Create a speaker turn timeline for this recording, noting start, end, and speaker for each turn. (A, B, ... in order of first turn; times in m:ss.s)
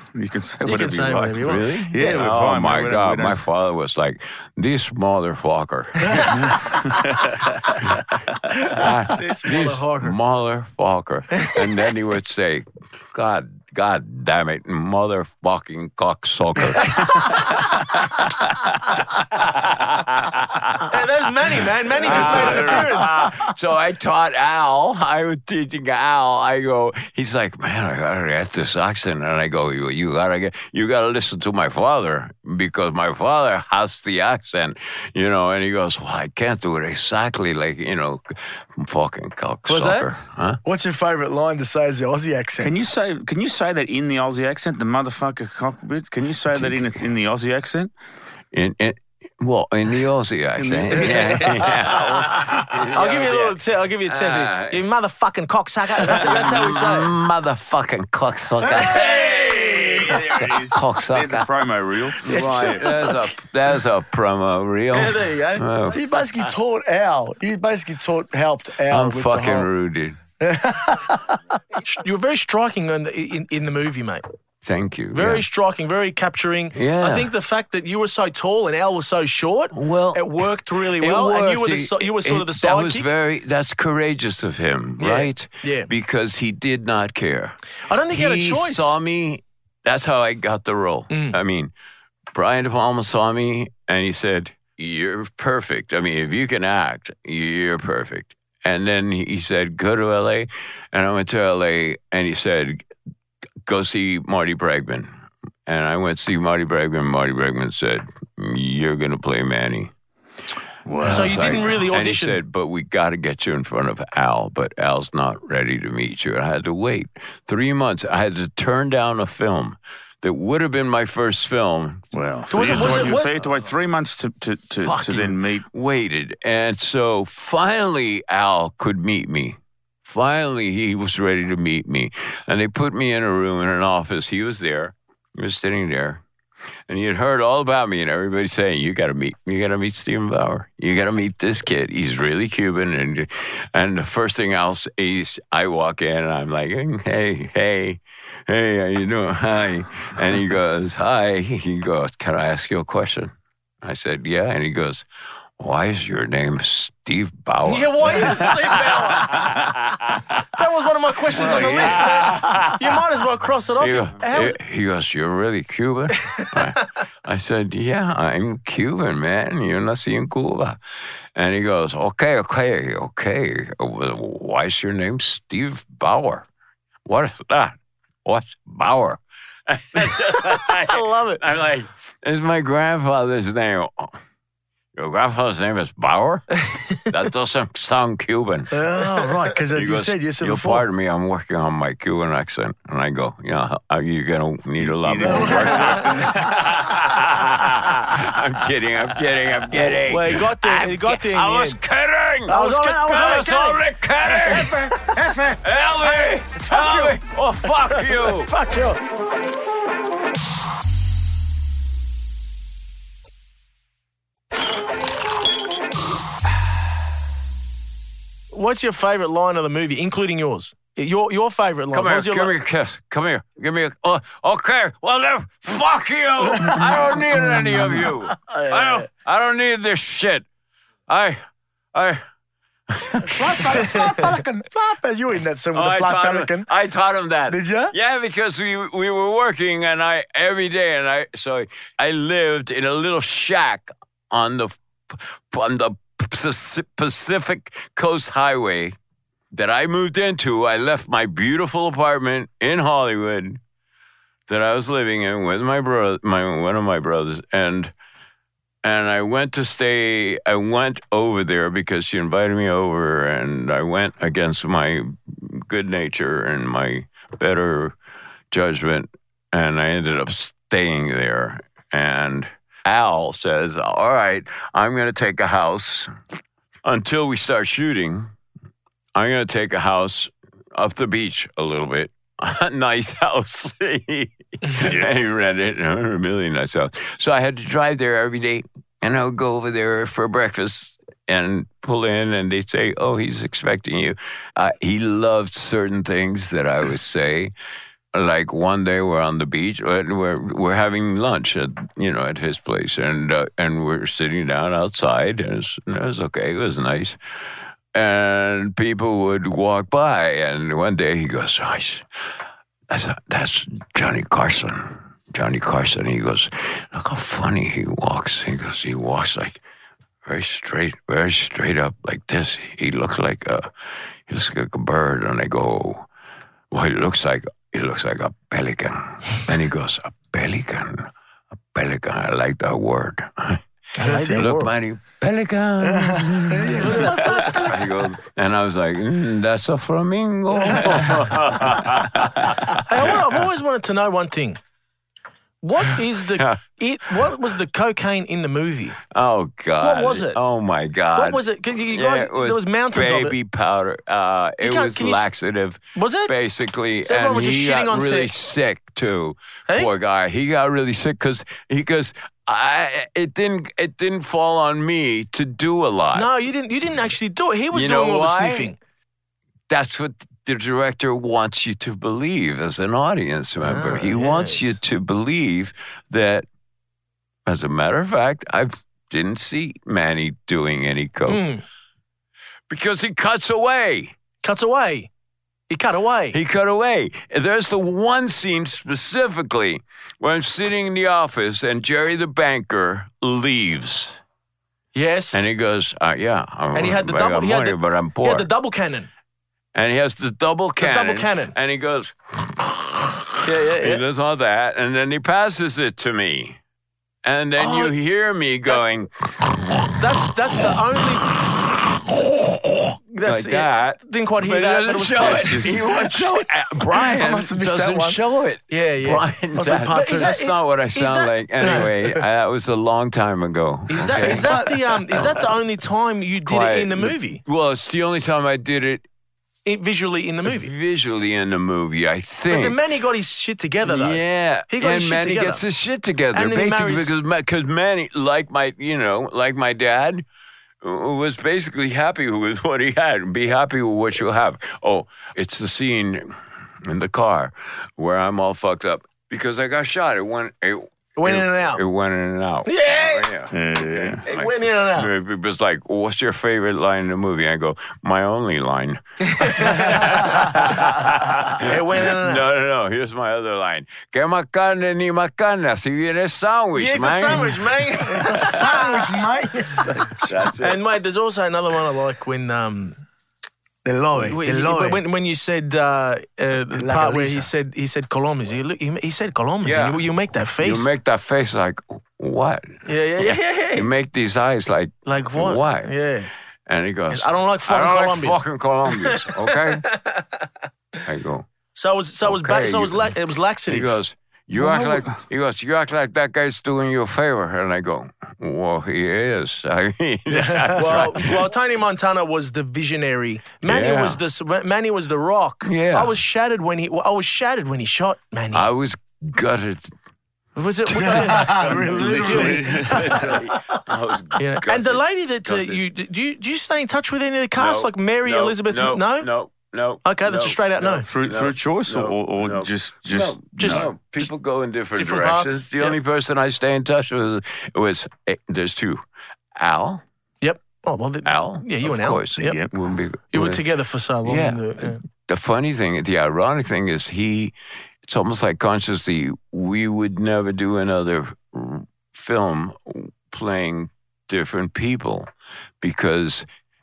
0:00.1-0:03.4 A
0:00.6-0:02.2 B
0:01.4-0:06.8 C
0:06.6-0:07.6 A
0:07.7-0:21.0 C
0:09.2-0:10.2 B
0:20.9-0:23.1 B
0:22.0-0:40.6 C
0:22.0-0:22.9 A
0:39.6-0:40.1 B
0:40.6-0:42.7 D
0:42.6-0:47.9 A
0:48.5-0:54.8 C
0:50.6-0:52.8 A
0:52.9-0:57.1 B
0:56.0-1:01.5 C
0:58.8-0:59.5 D
0:58.9-1:02.9 A
1:02.2-1:06.5 C
1:04.9-1:05.6 B
1:05.9-1:09.7 D
1:08.9-1:10.2 C
1:10.4-1:11.4 D
1:11.8-1:14.2 B
1:14.6-1:15.4 C
1:15.1-1:23.1 B
1:16.7-1:17.3 C
1:19.7-1:27.6 C
1:25.0-1:25.9 B
1:27.8-1:28.9 B
1:28.1-1:31.7 C
1:31.1-1:31.4 B
1:32.3-1:42.9 C
1:43.6-1:45.1 C
1:45.6-1:49.9 C
1:50.8-1:51.7 A
1:51.0-2:02.0 C
1:51.1-1:52.4 B
2:02.1-2:05.6 A
2:02.5-2:03.3 B
2:02.6-2:03.1 C
2:04.8-2:16.2 C
2:16.9-2:35.1 C
2:35.6-2:40.4 C
2:37.6-2:39.5 B
2:40.5-2:44.6 B
2:41.3-2:43.0 C
2:43.8-2:50.8 C
2:51.3-2:56.5 C
2:57.0-3:04.2 C
3:00.2-3:01.4 B
3:04.9-3:08.7 C
3:08.7-3:10.8 D
3:09.7-3:24.9 C
3:14.8-3:16.6 A
3:15.2-3:16.0 D
3:20.0-3:21.8 B
3:22.5-3:23.8 B
3:22.5-3:23.6 D
3:24.4-3:25.6 A
3:24.5-3:25.0 D
3:25.6-3:28.5 C
3:26.7-3:27.1 D
3:28.0-3:29.0 D
3:38.5-3:42.5 B
3:41.9-3:50.4 C
3:46.6-3:49.0 D
3:51.1-3:51.4 C
3:51.9-3:52.2 C
3:52.9-3:54.3 C
3:53.2-3:56.7 D
3:55.7-4:09.0 C
3:57.5-3:57.9 D
4:09.5-4:13.6 C
4:14.5-4:17.9 C
4:18.8-4:28.0 C
4:28.5-4:36.1 C
4:36.8-4:38.3 C
4:39.1-4:57.5 C
4:44.8-4:45.1 A
4:58.1-5:07.2 C
5:07.9-5:12.0 C
5:12.9-5:19.6 C
5:20.2-5:26.1 C
5:26.7-5:31.1 C
5:31.7-5:43.3 C
5:34.0-5:34.7 B
5:34.0-5:34.5 D
5:35.8-5:37.7 D
5:36.8-5:37.8 B
5:42.8-5:44.6 B
5:45.6-5:49.0 B
5:45.8-5:46.6 C
5:49.1-6:06.3 C
5:49.8-5:50.4 B
5:51.2-5:53.3 B
5:54.6-5:55.2 B
5:56.0-5:56.3 B
5:57.0-5:58.3 B
6:06.1-6:08.8 B
6:07.7-6:08.7 C
6:09.7-6:16.4 C
6:13.6-6:14.7 B
6:17.4-6:21.4 C
6:21.3-6:21.6 B
6:22.7-6:24.2 C
6:24.4-6:25.1 B
6:25.7-6:26.4 B
6:26.3-6:34.2 C
6:34.9-6:35.5 B
6:35.3-6:38.5 C
6:36.7-6:39.1 B
6:39.7-6:46.6 C
6:40.8-6:41.5 B
6:43.4-6:44.0 B
6:47.2-6:50.0 C
6:47.6-6:47.9 B
6:50.0-6:51.3 B
6:50.6-7:05.4 C
6:53.1-6:56.1 B
6:56.9-6:58.2 D
6:58.7-7:01.8 B
6:59.6-7:00.3 D
7:03.9-7:07.4 B
7:04.3-7:04.8 D
7:06.4-7:09.0 C
7:09.6-7:10.7 B
7:10.4-7:12.8 C
7:12.5-7:15.6 B
7:13.8-7:20.2 C
7:16.3-7:17.2 B
7:20.8-7:26.3 C
7:26.8-7:47.7 C
7:31.2-7:31.8 B
7:32.6-7:33.3 B
7:33.5-7:34.2 A
7:34.2-7:35.1 B
7:39.2-7:40.7 B
7:41.6-7:42.4 B
7:46.7-7:49.2 B
7:48.0-7:50.3 D
7:50.2-7:50.8 C
7:50.6-7:53.0 B
7:53.8-7:55.0 D
7:54.1-8:00.9 B
7:56.8-7:57.5 D
7:59.6-8:00.0 C
8:00.6-8:05.9 C
8:02.8-8:03.9 B
8:05.0-8:06.3 B
8:06.6-8:09.8 C
8:07.1-8:10.5 B
8:11.0-8:11.5 C
8:11.7-8:14.0 B
8:12.2-8:13.1 C
8:13.7-8:21.4 C
8:14.6-8:15.0 B
8:20.3-8:20.9 D
8:20.7-8:28.7 B
8:23.6-8:24.2 C
8:25.6-8:26.2 C
8:28.5-8:29.9 C
8:30.6-8:32.6 B
8:30.9-8:33.8 D
8:31.2-8:33.3 A
8:32.4-8:35.8 C
8:34.4-8:39.3 B
8:37.6-8:49.0 C
8:40.0-8:41.1 B
8:40.9-8:43.9 A
8:43.6-8:44.3 B
8:45.0-8:46.0 B
8:49.6-8:50.0 C
8:50.4-8:52.6 B
8:51.2-8:53.6 C
8:52.4-8:52.7 A
8:53.3-8:55.0 B
8:54.2-9:05.3 C
9:05.8-9:06.4 C